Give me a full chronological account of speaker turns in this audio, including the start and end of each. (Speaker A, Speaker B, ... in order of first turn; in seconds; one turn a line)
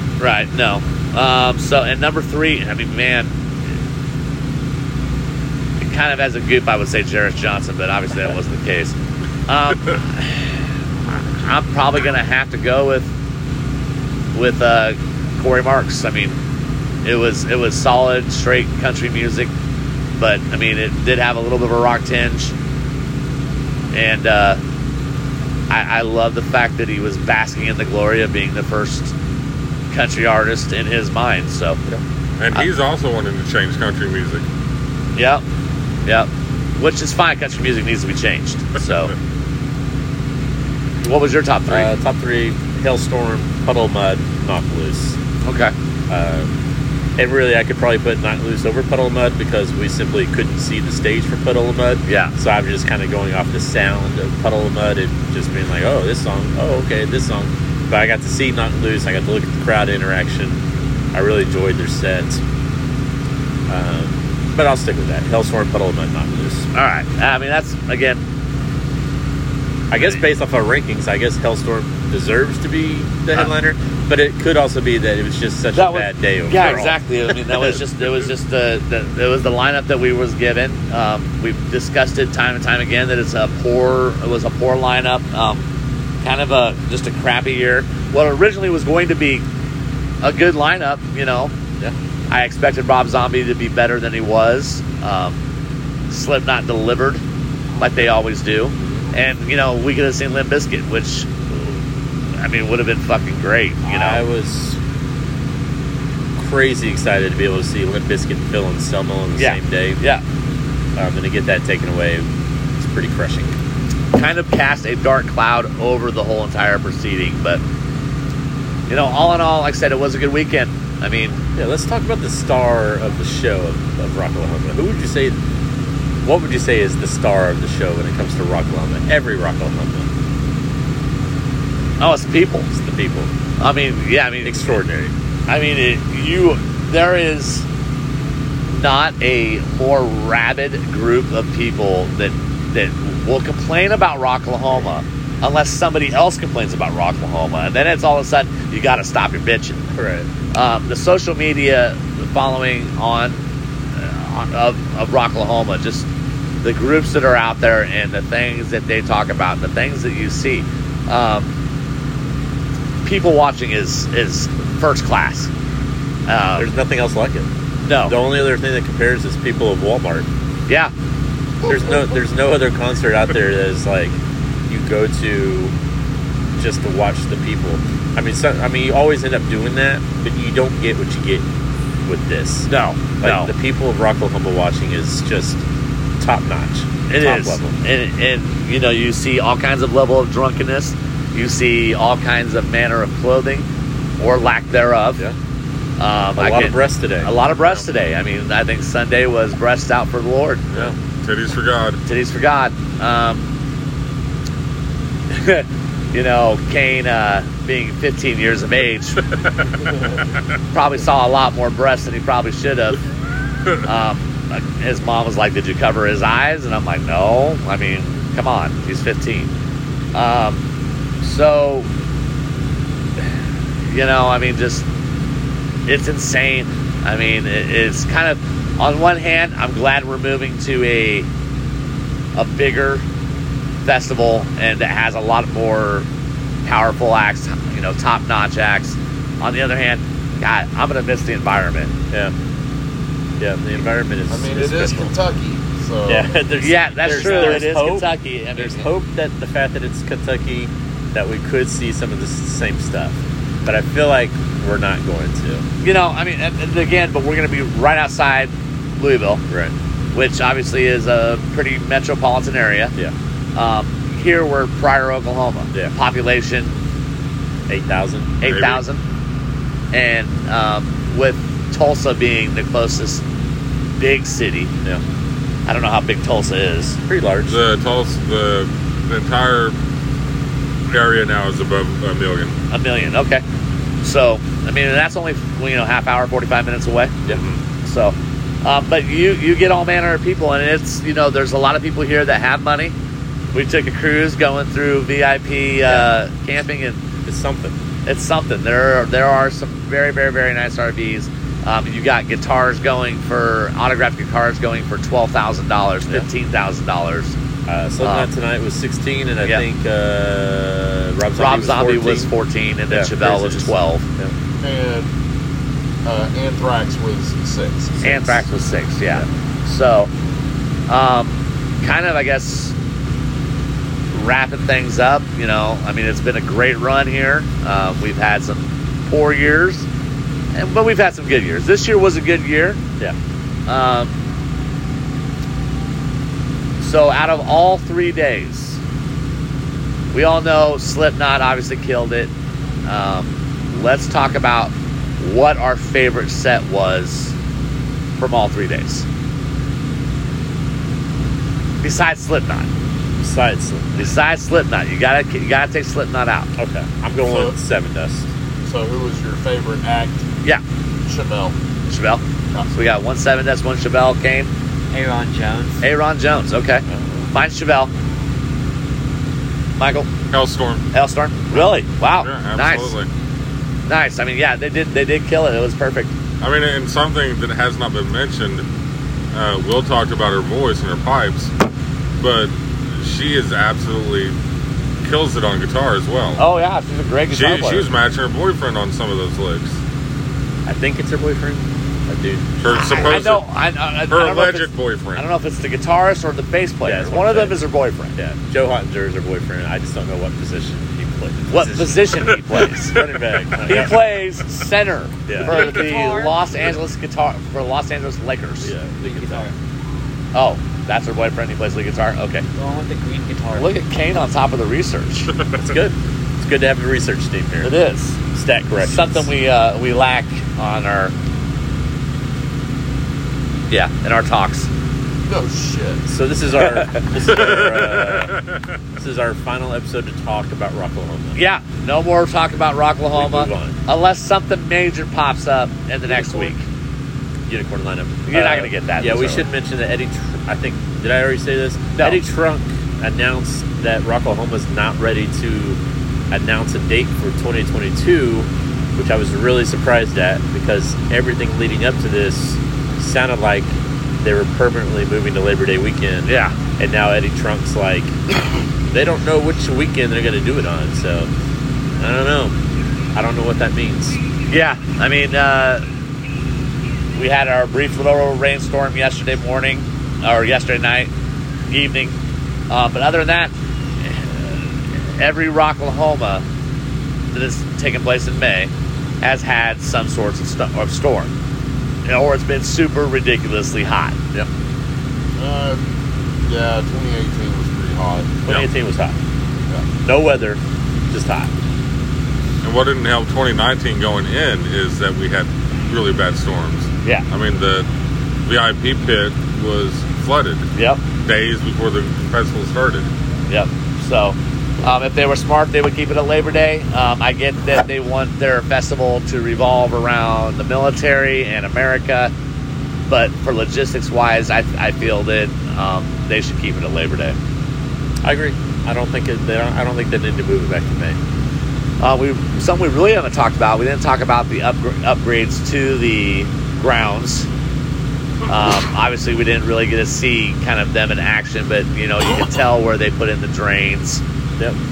Speaker A: 0.2-3.3
Speaker A: 5.8-8.9
Speaker A: 9.5-10.5
Speaker A: 11.4-13.1
Speaker A: 14.3-16.4
Speaker A: 17.0-19.5
Speaker A: 20.2-22.5
Speaker A: 23.9-24.6
Speaker A: 25.7-29.1
Speaker A: 29.9-31.8
Speaker B: 32.4-34.4
Speaker A: 35.1-35.4
Speaker A: 36.0-39.1
Speaker A: 41.0-41.9
Speaker C: 41.7-45.2
Speaker A: 45.4-45.7
Speaker C: 46.1-46.5
Speaker C: 47.2-60.6
Speaker A: 52.0-52.3
Speaker C: 61.1-62.4
Speaker C: 63.7-66.7
Speaker A: 66.7-68.2
Speaker C: 69.9-77.8
Speaker A: 75.7-85.7
Speaker A: 86.2-89.4
Speaker A: 90.2-91.5
Speaker A: 92.3-95.4
Speaker A: 96.1-97.2
Speaker A: 97.8-101.8
Speaker A: 102.4-104.2
Speaker C: 103.8-104.8
Speaker C: 106.3-110.0
Speaker A: 109.3-110.2
Speaker C: 111.0-112.2
Speaker C: 112.8-113.5
Speaker A: 114.1-117.6
Speaker A: 118.9-121.4
Speaker C: 121.5-125.3
Speaker C: 126.2-130.1
Speaker A: 132.0-132.7
Speaker C: 132.7-133.3
Speaker A: 133.6-134.6
Speaker C: 134.4-135.1
Speaker A: 135.5-137.7
Speaker A: 138.7-149.8
Speaker C: 149.9-150.3
Speaker A: 150.5-153.4
Speaker A: 153.9-156.1
Speaker A: 156.6-161.5
Speaker A: 163.0-165.5
Speaker A: 166.3-166.7
Speaker C: 166.6-167.5
Speaker A: 167.8-168.2
Speaker C: 168.1-170.3
Speaker C: 171.6-174.2
Speaker C: 174.7-175.7
Speaker C: 176.6-181.4
Speaker C: 182.1-182.7
Speaker A: 182.7-183.5
Speaker C: 183.2-185.6
Speaker C: 186.2-187.8
Speaker A: 187.1-193.7
Speaker A: 194.2-195.2
Speaker A: 196.0-200.7
Speaker C: 196.4-197.3
Speaker B: 200.8-202.0
Speaker A: 202.1-203.4
Speaker A: 205.3-209.2
Speaker A: 210.7-213.0
Speaker A: 213.8-219.5
Speaker A: 220.1-220.6
Speaker A: 221.2-221.9
Speaker A: 223.8-224.8
Speaker A: 225.9-231.3
Speaker A: 232.3-233.0
Speaker A: 233.8-236.1
Speaker A: 236.6-241.9
Speaker C: 243.4-245.1
Speaker D: 244.3-246.3
Speaker C: 246.1-255.6
Speaker A: 246.6-248.9
Speaker D: 247.1-247.6
Speaker A: 255.8-259.4
Speaker A: 260.1-262.9
Speaker A: 263.6-266.8
Speaker C: 267.7-268.4
Speaker A: 268.4-269.0
Speaker B: 268.4-268.8
Speaker A: 269.9-273.2
Speaker A: 274.0-274.7
Speaker A: 275.7-277.0
Speaker C: 277.1-277.6
Speaker B: 277.5-279.8
Speaker B: 280.9-282.6
Speaker A: 282.7-283.4
Speaker A: 284.0-287.2
Speaker B: 287.3-287.6
Speaker A: 287.8-292.9
Speaker A: 293.5-297.0
Speaker C: 297.2-297.7
Speaker A: 298.1-307.4
Speaker C: 307.7-312.3
Speaker A: 308.0-308.3
Speaker A: 311.4-314.0
Speaker C: 312.9-314.3
Speaker D: 314.6-315.1
Speaker D: 316.0-318.3
Speaker A: 318.0-320.1
Speaker A: 320.9-322.7
Speaker A: 324.1-329.9
Speaker A: 330.5-332.8
Speaker A: 333.7-334.1
Speaker A: 336.8-338.8
Speaker A: 340.1-342.3
Speaker A: 342.8-347.3
Speaker A: 348.2-349.0
Speaker A: 351.8-352.7
Speaker C: 353.2-354.1
Speaker A: 353.9-356.5
Speaker C: 356.6-358.3
Speaker D: 357.2-357.6
Speaker D: 358.6-360.2
Speaker D: 361.0-361.5
Speaker A: 361.9-362.2
Speaker A: 362.7-364.5
Speaker E: 364.9-365.8
Speaker A: 365.8-367.9
Speaker C: 366.9-367.3
Speaker A: 369.8-370.1
Speaker B: 370.3-370.8
Speaker A: 370.9-372.9
Speaker B: 372.2-373.1
Speaker A: 373.9-376.1
Speaker B: 376.4-378.6
Speaker B: 379.3-381.5
Speaker B: 382.2-384.3
Speaker B: 385.0-386.4
Speaker A: 386.4-387.9
Speaker B: 387.3-389.8
Speaker C: 390.6-393.2
Speaker B: 392.6-393.4
Speaker A: 392.7-398.1
Speaker B: 394.1-395.2
Speaker C: 396.8-397.5
Speaker C: 398.1-402.4
Speaker A: 401.5-403.0
Speaker C: 402.9-404.0
Speaker A: 403.6-408.7
Speaker C: 405.3-405.7
Speaker E: 405.4-406.4
Speaker C: 408.6-409.5
Speaker E: 409.1-409.5
Speaker A: 410.3-412.4
Speaker E: 412.5-413.7
Speaker A: 413.5-415.3
Speaker C: 415.5-417.7
Speaker A: 417.6-418.2
Speaker C: 418.3-419.3
Speaker A: 418.8-421.1
Speaker A: 423.7-424.7
Speaker D: 425.3-426.0
Speaker C: 426.1-428.4
Speaker B: 427.3-428.0
Speaker C: 428.9-431.4
Speaker A: 431.3-436.6
Speaker C: 433.1-433.7
Speaker C: 436.1-436.5
Speaker C: 437.5-445.8
Speaker A: 438.3-439.5
Speaker A: 441.9-442.2
Speaker C: 446.3-458.2
Speaker A: 456.2-456.5
Speaker C: 458.9-461.3
Speaker C: 462.0-462.6
Speaker C: 463.1-464.2
Speaker A: 464.5-465.8
Speaker A: 467.1-471.1
Speaker A: 471.7-472.1
Speaker A: 472.7-476.4
Speaker A: 477.3-478.7
Speaker A: 479.2-481.3
Speaker A: 482.1-484.2
Speaker D: 485.4-488.5
Speaker C: 488.4-489.1
Speaker C: 490.0-490.6
Speaker C: 491.1-491.5
Speaker B: 492.6-497.9
Speaker B: 498.4-500.6
Speaker A: 500.8-501.0
Speaker B: 501.2-503.1
Speaker A: 503.5-512.3
Speaker A: 513.1-517.4
Speaker C: 518.2-521.2
Speaker A: 522.0-527.5
Speaker A: 528.5-534.2